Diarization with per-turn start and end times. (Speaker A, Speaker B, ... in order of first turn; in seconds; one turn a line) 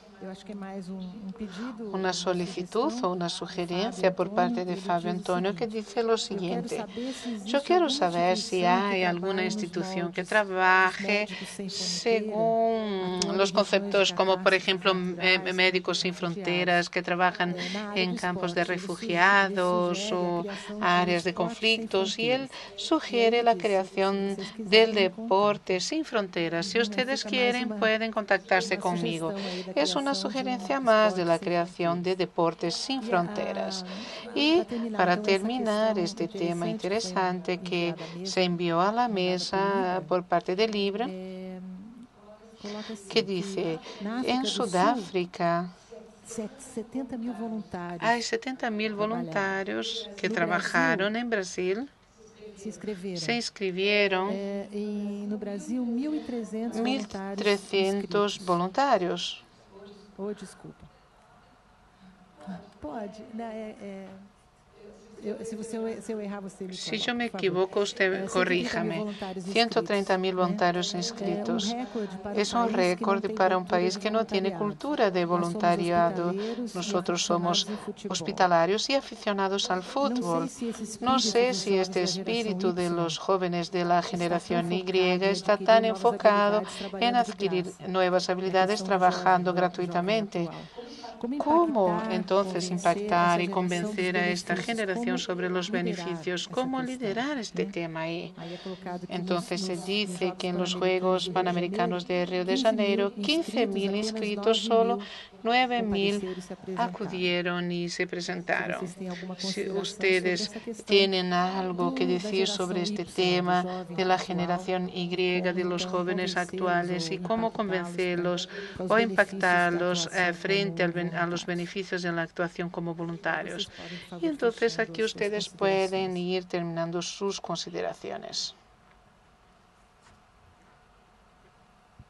Speaker A: 0.2-5.7
Speaker B: 1.9-6.9
Speaker A: 6.3-16.8
Speaker B: 7.5-41.1
Speaker A: 17.5-25.6
Speaker A: 26.6-27.9
Speaker A: 28.6-32.1
Speaker A: 33.0-40.2
Speaker A: 41.0-45.1
Speaker B: 43.1-45.7
Speaker A: 46.2-48.2
Speaker B: 48.0-51.9
Speaker A: 49.0-49.6
Speaker A: 50.2-51.1
Speaker A: 52.5-53.4
Speaker B: 53.2-54.4
Speaker A: 54.3-58.5
Speaker B: 56.7-59.4
Speaker A: 60.1-60.9
Speaker A: 62.5-64.3
Speaker A: 65.2-78.5
Speaker B: 66.7-71.8
Speaker B: 72.3-90.5
Speaker A: 80.0-83.2
Speaker A: 84.1-87.9
Speaker A: 88.5-97.8
Speaker B: 91.4-98.3
Speaker A: 98.4-105.1
Speaker B: 99.1-123.7
Speaker A: 105.8-107.3
Speaker A: 108.5-111.1
Speaker A: 111.6-114.7
Speaker A: 115.3-121.6
Speaker A: 123.4-126.2
Speaker B: 124.2-128.5